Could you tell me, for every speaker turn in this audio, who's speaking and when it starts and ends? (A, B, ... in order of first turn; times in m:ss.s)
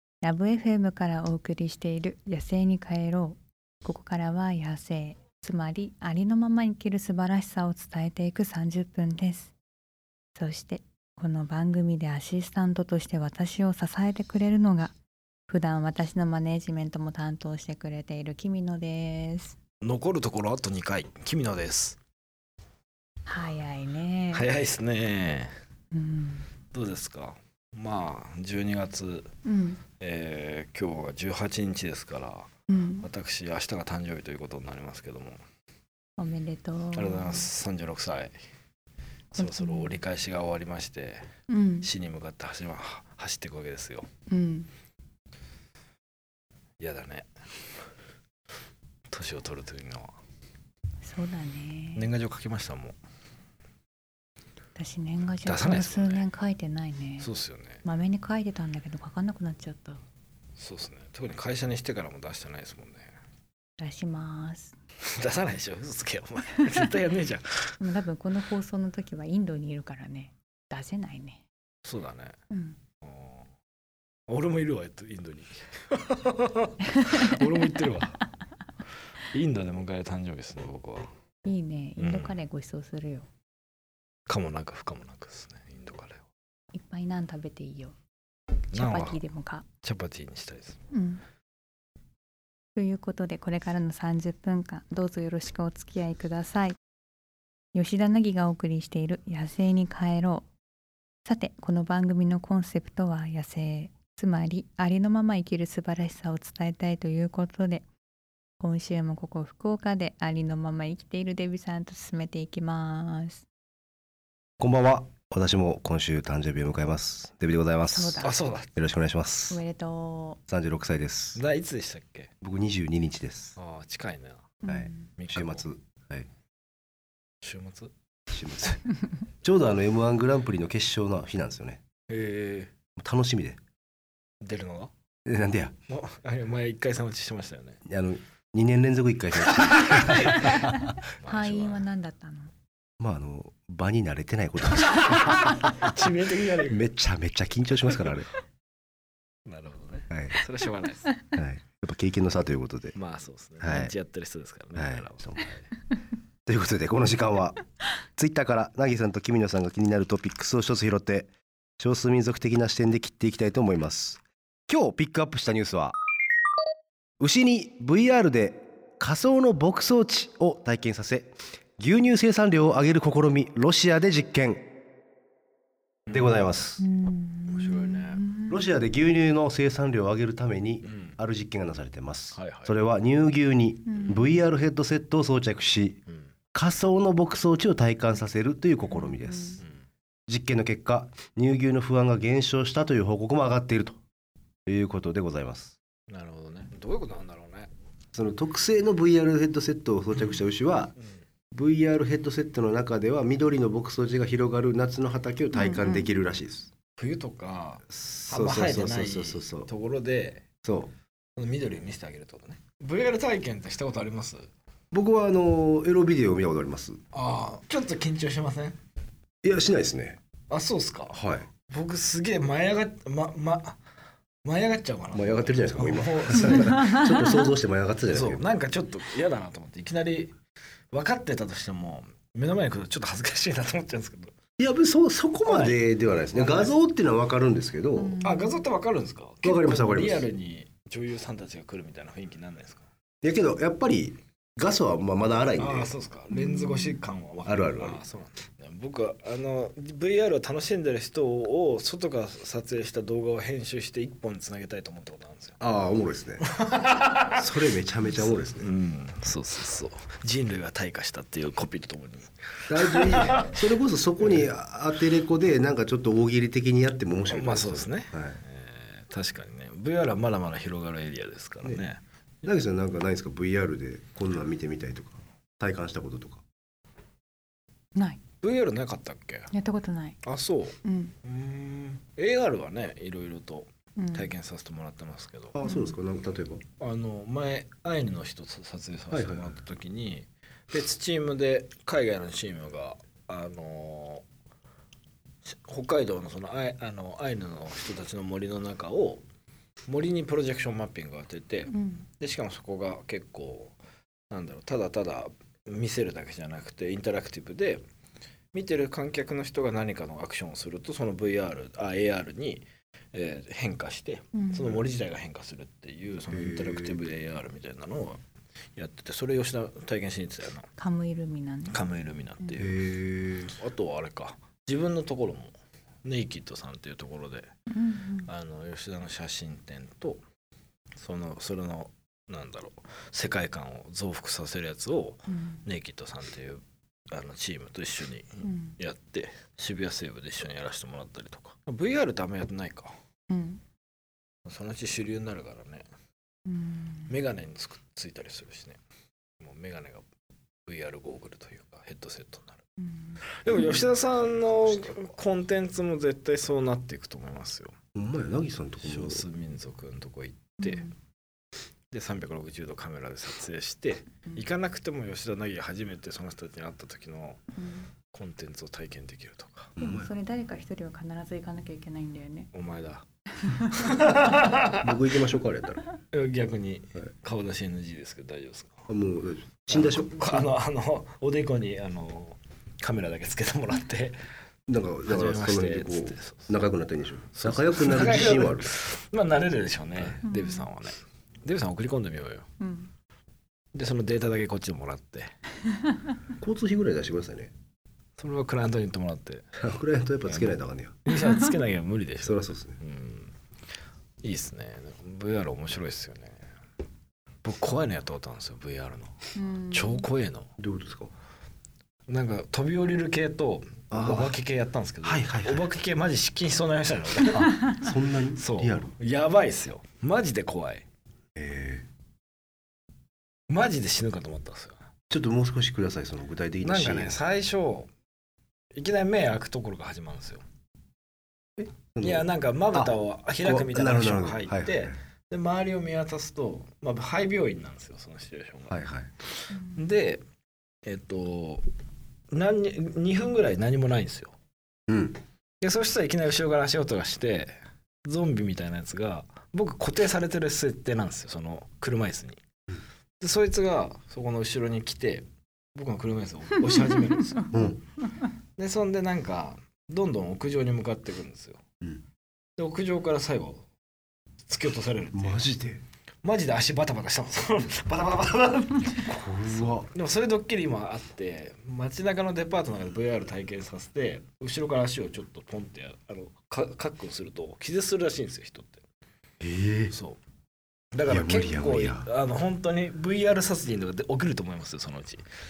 0:00.2-0:09.5 A
0:10.3-0:14.9 A
0:15.5-0:19.6 A
0:19.8-0:22.0 B
0:23.2-0:24.5 A
0:24.3-0:25.5 B
0:25.9-0:26.5 A
0:26.7-0:29.3 B
0:29.4-0:29.8 A
0:30.0-0:32.5 B
0:32.7-0:33.1 A
0:33.0-0:35.4 B
0:36.2-0:37.5 A
0:36.9-0:38.3 B
0:39.3-0:41.2 B
0:39.4-0:40.0 A
0:41.5-0:41.9 A
0:41.8-0:44.1 B
0:44.3-0:44.7 A
0:46.8-0:47.3 B
0:49.1-0:50.1 B
0:51.0-0:52.1 A
0:51.9-0:53.0 B
0:54.7-0:57.3 A
0:55.4-0:56.2 B
0:57.2-0:57.8 B
0:57.8-1:00.0 A
1:00.6-1:03.1 B
1:03.8-1:04.7 A
1:05.0-1:07.8 B
1:07.8-1:11.4 A
1:11.8-1:12.4 B
1:12.5-1:12.8 A
1:13.0-1:13.5 B
1:14.3-1:18.2 B
1:16.8-1:17.3 A
1:19.2-1:21.1 B
1:21.4-1:23.3 A
1:22.0-1:22.4 B
1:24.3-1:26.3 B
1:26.7-1:28.0 A
1:28.7-1:29.2 B
1:28.7-1:29.6 A
1:29.8-1:30.8 B
1:30.9-1:31.2 A
1:32.7-1:36.8 A
1:37.7-1:40.5 A
1:41.2-1:47.8 A
1:48.6-1:53.4 A
1:54.6-1:59.6 C
1:57.9-1:58.3 A
1:58.2-1:58.7 B
1:59.5-2:00.4 A
2:00.5-2:01.4 C
2:01.3-2:02.3 B
2:02.4-2:03.6 C
2:03.6-2:04.6 B
2:04.6-2:05.1 A
2:04.7-2:06.3 C
2:05.2-2:05.6 B
2:07.4-2:07.9 B
2:08.3-2:08.8 C
2:09.4-2:11.8 C
2:12.1-2:12.7 B
2:13.0-2:13.6 C
2:14.4-2:14.9 B
2:15.2-2:15.7 C
2:15.9-2:17.8 B
2:17.8-2:20.9 C
2:19.7-2:21.9 B
2:20.3-2:22.5 A
2:23.0-2:25.9 C
2:24.7-2:26.8 B
2:26.5-2:28.3 C
2:27.9-2:28.2 B
2:29.4-2:31.2 B
2:30.1-2:30.4 C
2:31.3-2:32.9 C
2:32.9-2:35.7 B
2:33.6-2:33.9 C
2:34.8-2:35.4 C
2:36.4-2:46.0 C
2:47.2-2:54.7 C
2:56.1-2:56.8 C
2:56.8-2:58.6 A
2:57.5-2:58.2 B
2:58.5-3:06.0 C
3:00.8-3:01.2 B
3:02.3-3:02.7 B
3:03.9-3:04.3 A
3:04.0-3:04.3 B
3:06.1-3:06.3 B
3:06.5-3:09.6 C
3:09.0-3:09.6 A
3:10.3-3:14.0 C
3:14.6-3:15.8 C
3:16.1-3:17.7 B
3:18.1-3:20.9 C
3:21.5-3:26.7 C
3:25.5-3:26.1 A
3:27.0-3:30.4 B
3:27.9-3:29.7 C
3:30.6-3:30.9 C
3:31.4-3:34.5 B
3:34.9-3:37.0 C
3:37.1-3:38.8 B
3:39.4-3:40.2 C
3:40.5-3:43.8 B
3:41.1-3:41.5 C
3:44.4-3:47.1 B
3:45.1-3:48.4 C
3:48.1-3:50.3 B
3:50.9-3:54.3 B
3:54.6-3:58.2 C
3:55.4-3:56.7 B
3:57.9-3:58.6 A
3:58.2-4:02.8 B
3:59.4-4:00.3 C
4:03.2-4:05.9 C
4:05.6-4:15.6 B
4:06.3-4:07.0 A
4:07.4-4:08.0 C
4:15.6-4:16.4 C
4:16.5-4:17.6 B
4:17.3-4:18.7 C
4:18.1-4:23.6 B
4:22.7-4:28.4 C
4:24.2-4:24.5 B
4:27.3-4:32.0 B
4:32.4-4:36.4 C
4:37.9-4:38.2 A
4:38.4-4:39.5 B
4:39.5-4:40.2 A
4:40.2-4:45.6 B
4:40.8-4:41.1 A
4:44.0-4:44.3 A
4:45.5-4:46.6 C
4:45.6-4:45.9 A
4:46.8-4:54.2 B
4:49.1-4:49.6 C
4:55.4-4:59.2 B
4:59.9-5:03.7 B
5:01.7-5:02.0 A
5:04.3-5:07.8 B
5:08.5-5:18.2 B
5:14.3-5:14.8 A
5:16.3-5:17.1 C
5:18.8-5:20.7 B
5:20.8-5:21.8 A
5:21.7-5:22.8 B
5:22.6-5:23.5 C
5:23.5-5:27.5 B
5:27.7-5:28.3 A
5:28.2-5:30.2 B
5:31.0-5:42.9 B
5:35.3-5:35.6 A
5:38.4-5:38.8 A
5:43.3-5:43.6 A
5:44.4-5:45.8 B
5:46.5-5:47.1 A
5:47.1-5:48.8 B
5:49.4-5:50.0 B
5:50.6-5:52.6 B
5:52.8-5:53.2 A
5:53.3-5:57.7 B
5:57.9-5:59.2 C
5:58.8-6:00.9 B
6:00.6-6:00.9 A
6:01.9-6:07.4 B
6:07.6-6:07.9 A
6:08.1-6:09.8 B
6:09.8-6:10.1 C
6:09.8-6:12.5 A
6:12.5-6:15.0 B
6:13.4-6:14.1 A
6:14.8-6:15.8 C
6:16.1-6:18.9 B
6:18.9-6:20.5 C
6:19.7-6:24.2 B
6:24.7-6:28.7 C
6:25.0-6:26.6 B
6:27.3-6:32.5 B
6:30.2-6:30.7 A
6:32.6-6:32.9 A
6:33.7-6:35.3 B
6:35.7-6:36.1 A
6:36.4-6:37.5 C
6:38.2-6:39.5 B
6:39.6-6:41.0 C
6:40.2-6:40.5 B
6:41.0-6:43.3 B
6:42.2-6:42.8 C
6:44.2-6:46.4 B
6:47.4-6:50.5 B
6:49.3-6:50.1 A
6:50.6-6:51.1 C
6:52.1-7:00.8 B
6:53.9-6:54.4 C
6:55.0-6:55.7 C
6:57.3-6:58.9 C
7:01.4-7:01.9 C
7:03.5-7:04.8 B
7:05.1-7:07.2 C
7:06.6-7:07.9 B
7:08.7-7:10.4 B
7:11.6-7:15.0 C
7:12.0-7:18.8 B
7:18.7-7:19.1 C
7:19.4-7:20.2 B
7:20.8-7:21.7 B
7:22.3-7:24.3 B
7:24.9-7:25.2 C
7:25.6-7:32.4 B
7:33.2-7:37.7 B
7:36.7-7:37.2 A
7:37.5-7:37.8 C
7:38.6-7:41.6 B
7:42.6-7:43.6 B
7:44.5-7:45.4 B
7:45.1-7:45.8 C
7:46.2-7:58.8 B
7:49.0-7:49.9 C
7:59.4-8:00.0 C
7:59.9-8:00.2 B
8:00.9-8:05.2 B
8:01.1-8:02.1 C